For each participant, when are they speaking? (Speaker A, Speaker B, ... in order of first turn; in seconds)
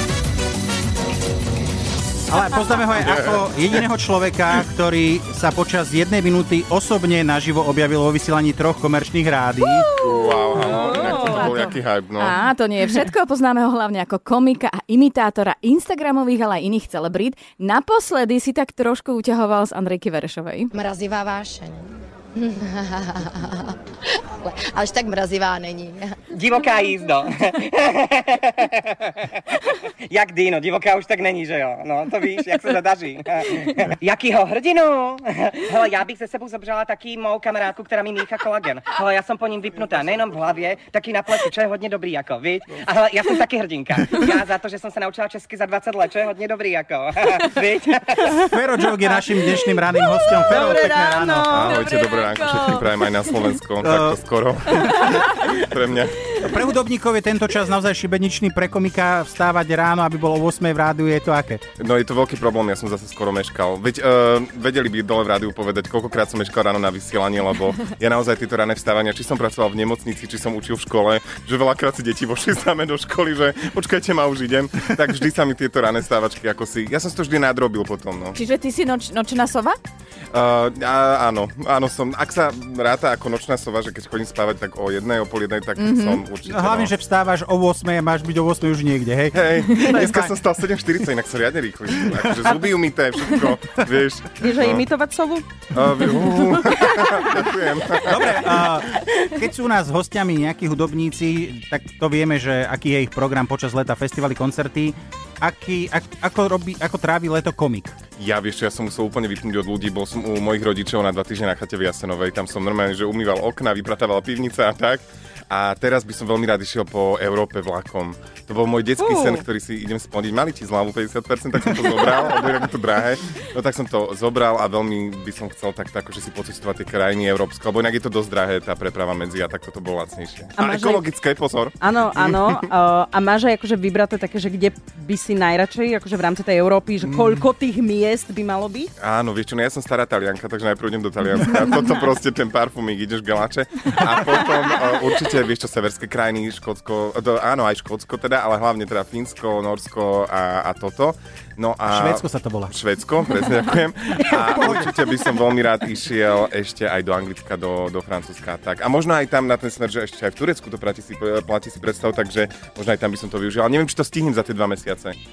Speaker A: 2.3-9.9, 48.4-51.7, 53.8-54.2, 54.9-55.4, 56.3-61.6, 86.5-90.3, 98.0-108.0, 151.9-152.7, 154.3-154.9
Speaker B: 10.0-12.3, 51.5-56.3, 61.8-78.4, 80.3-86.9, 89.3-94.8, 95.7-98.5, 108.2-132.5, 137.1-137.4, 139.0-165.2
Speaker C: 10.3-20.7, 78.4-79.8, 85.8-86.2
Speaker D: 10.7-11.5, 50.5-52.6, 94.4-95.5, 119.0-119.4, 130.6-131.0, 131.8-138.9
Speaker E: 20.7-23.8, 24.4-26.3
Speaker F: 26.3-29.2, 30.1-48.4